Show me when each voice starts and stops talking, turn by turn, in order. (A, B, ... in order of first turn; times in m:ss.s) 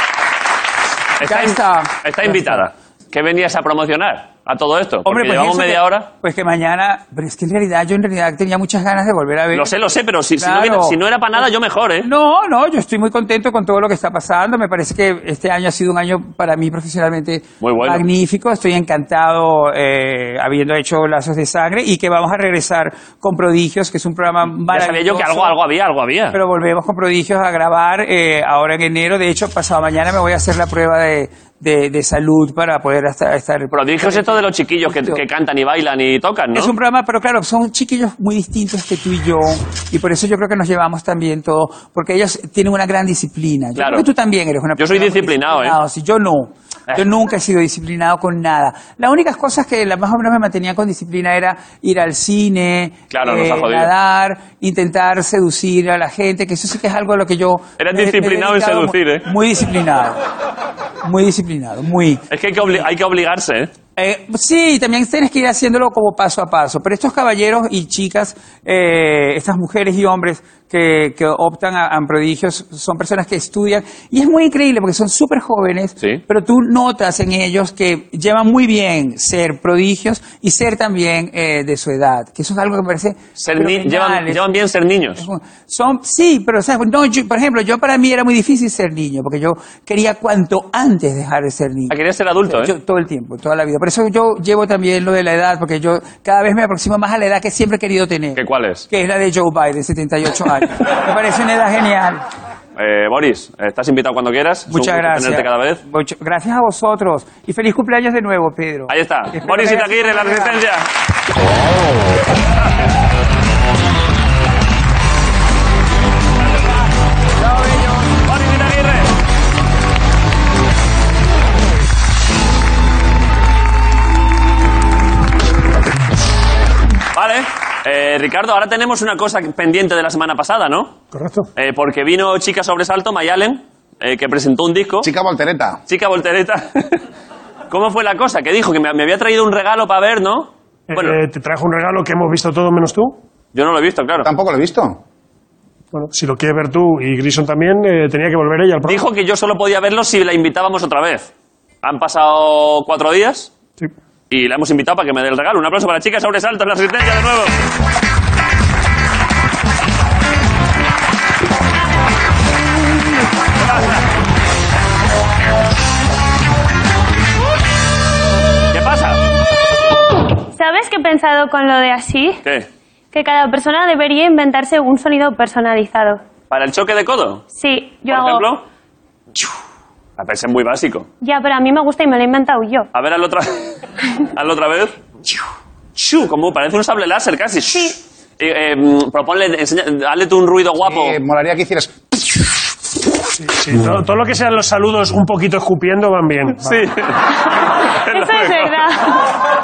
0:01.2-0:06.1 A
0:01.2-0:02.6 B
0:05.0-0:09.7 B
0:09.5-0:12.1 A
0:10.4-0:11.4 B
0:12.0-0:25.6 B
0:17.6-0:18.0 A
0:24.4-0:26.4 A
0:26.3-0:35.2 B
0:33.7-0:36.7 A
0:36.5-1:00.2 B
0:43.8-0:44.1 A
0:44.8-0:45.8 A
0:53.1-0:53.9 A
0:57.8-0:59.3 A
1:01.0-1:02.8 B
1:02.3-1:03.7 A
1:04.0-1:24.4 B
1:23.4-1:25.2 A
1:25.2-1:32.0 B
1:31.9-1:32.7 A
1:32.5-1:42.2 B
1:38.3-1:38.9 A
1:42.8-1:45.8 A
1:44.7-1:50.6 B
1:48.9-1:50.9 A
1:56.4-1:56.8 A
1:57.4-1:58.0 B
1:58.1-1:59.1 A
2:07.1-2:11.0 A
2:11.1-2:11.5 C
2:11.6-2:15.1 A
2:15.0-2:15.8 D
2:15.9-2:17.0 A
2:17.7-2:21.2 A
2:20.9-2:23.2 C
2:23.5-2:24.3 A
2:24.2-2:25.0 D
2:25.9-2:29.0 C
2:28.8-2:31.3 A
2:31.8-2:33.5 A
2:34.3-2:37.5 A
2:43.6-2:44.0 A
2:48.7-2:49.2 A
2:50.5-2:52.4 E
2:52.4-2:52.7 A
2:53.1-2:56.2 E
2:56.5-2:57.4 A
2:57.5-2:58.4 E
2:58.1-2:58.6 A
3:00.2-3:01.1 A
3:01.2-3:02.9 E
3:02.9-3:03.7 A
3:04.3-3:05.0 A
3:05.9-3:11.2 A
3:07.7-3:08.0 E
3:10.8-3:11.9 D
3:13.4-3:16.8 C
3:16.6-3:18.8 A
3:18.1-3:19.3 E